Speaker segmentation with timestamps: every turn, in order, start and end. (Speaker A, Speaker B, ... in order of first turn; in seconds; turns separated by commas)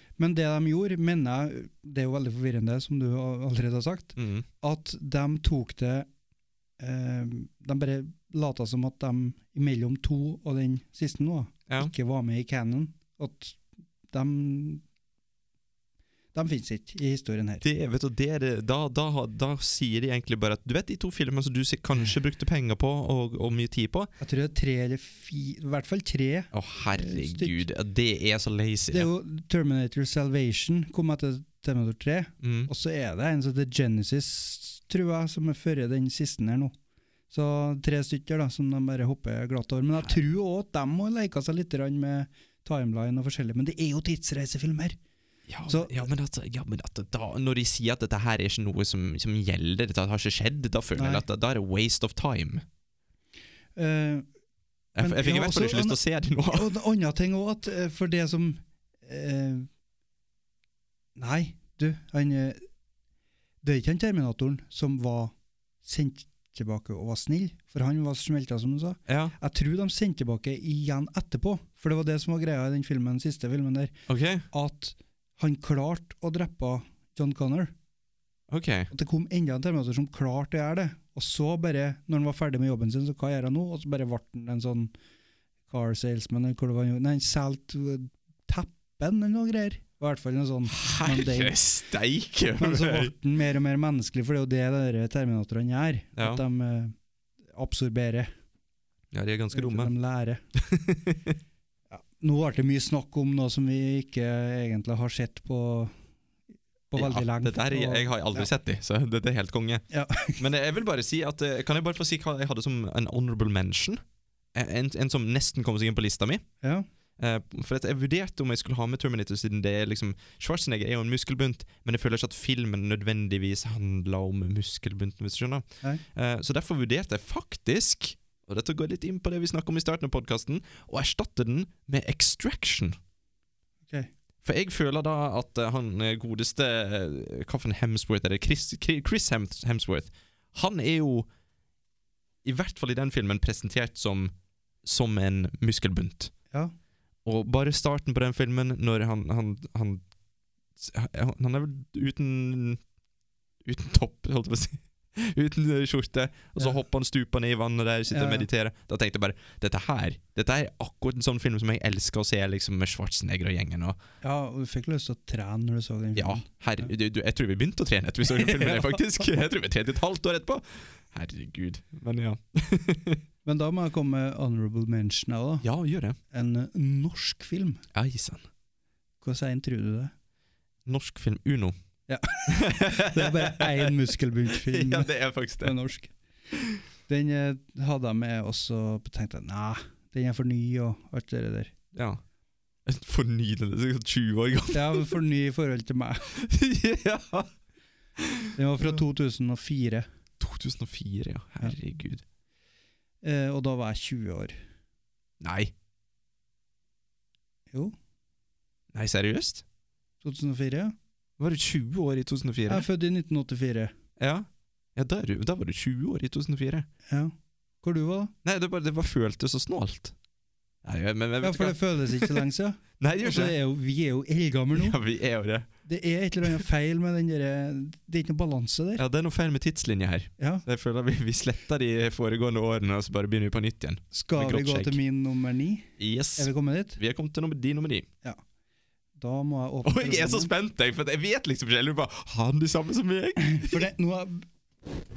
Speaker A: 0.2-6.1, Speaker B: 4.2-4.5, Speaker A: 6.8-14.8, Speaker A: 16.3-17.6, Speaker B: 17.6-24.1, Speaker A: 24.2-27.6, Speaker B: 26.5-29.1, Speaker A: 28.9-36.7, Speaker B: 32.4-32.7, Speaker A: 37.3-45.0, Speaker B: 45.5-52.6, Speaker A: 45.6-46.1, Speaker A: 51.0-51.2, Speaker A: 53.8-54.2, Speaker B: 55.0-56.7, Speaker A: 55.0-59.7, Speaker A: 61.1-62.6, Speaker A: 63.6-73.9, Speaker B: 69.1-69.3, Speaker B: 74.1-74.5, Speaker A: 74.5-77.7, Speaker B: 78.5-78.9, Speaker A: 78.9-84.9, Speaker A: 85.7-91.6, Speaker B: 90.7-93.1, Speaker A: 92.6-96.9, Speaker B: 96.2-96.4, Speaker A: 97.5-98.3, Speaker B: 99.1-99.9, Speaker A: 99.5-100.4, Speaker B: 100.6-101.3, Speaker A: 101.9-105.9, Speaker A: 106.9-108.5, Speaker B: 107.0-109.8, Speaker A: 109.9-110.4, Speaker B: 110.3-114.0, Speaker B: 114.5-116.4, Speaker B: 117.2-132.9, Speaker B: 134.4-141.3, Speaker B: 142.4-144.3, Speaker B: 144.8-146.3, Speaker B: 147.2-150.0, Speaker B: 150.8-152.8, Speaker B: 153.6-164.0, Speaker A: 158.1-158.5, Speaker A: 164.2-166.9, Speaker B: 166.1-173.2, Speaker A: 168.3-169.3, Speaker A: 173.4-175.7, Speaker B: 175.6-176.2, Speaker A: 176.3-177.8, Speaker B: 177.9-178.4, Speaker A: 179.2-180.1, Speaker B: 180.8-181.7, Speaker A: 182.1-186.2, Speaker B: 182.5-183.9, Speaker B: 184.5-185.8, Speaker A: 187.1-191.7, Speaker B: 191.9-192.2, Speaker B: 192.8-195.1, Speaker A: 194.7-196.3, Speaker B: 196.3-197.5, Speaker B: 198.2-199.0, Speaker A: 198.5-200.1, Speaker B: 200.4-202.2, Speaker A: 203.2-204.5, Speaker B: 205.4-205.7, Speaker B: 208.9-209.6, Speaker A: 210.2-210.9, Speaker B: 211.4-212.9, Speaker A: 212.7-213.9, Speaker B: 214.2-216.9, Speaker A: 217.1-218.3, Speaker B: 218.4-220.1, Speaker B: 220.8-222.4, Speaker A: 221.4-225.0, Speaker B: 223.0-223.6, Speaker B: 224.7-225.7, Speaker A: 225.8-229.0, Speaker B: 229.0-235.0, Speaker A: 230.4-230.6, Speaker A: 234.1-237.0, Speaker B: 236.0-238.1, Speaker A: 239.2-240.5, Speaker B: 239.8-243.9, Speaker A: 243.4-244.5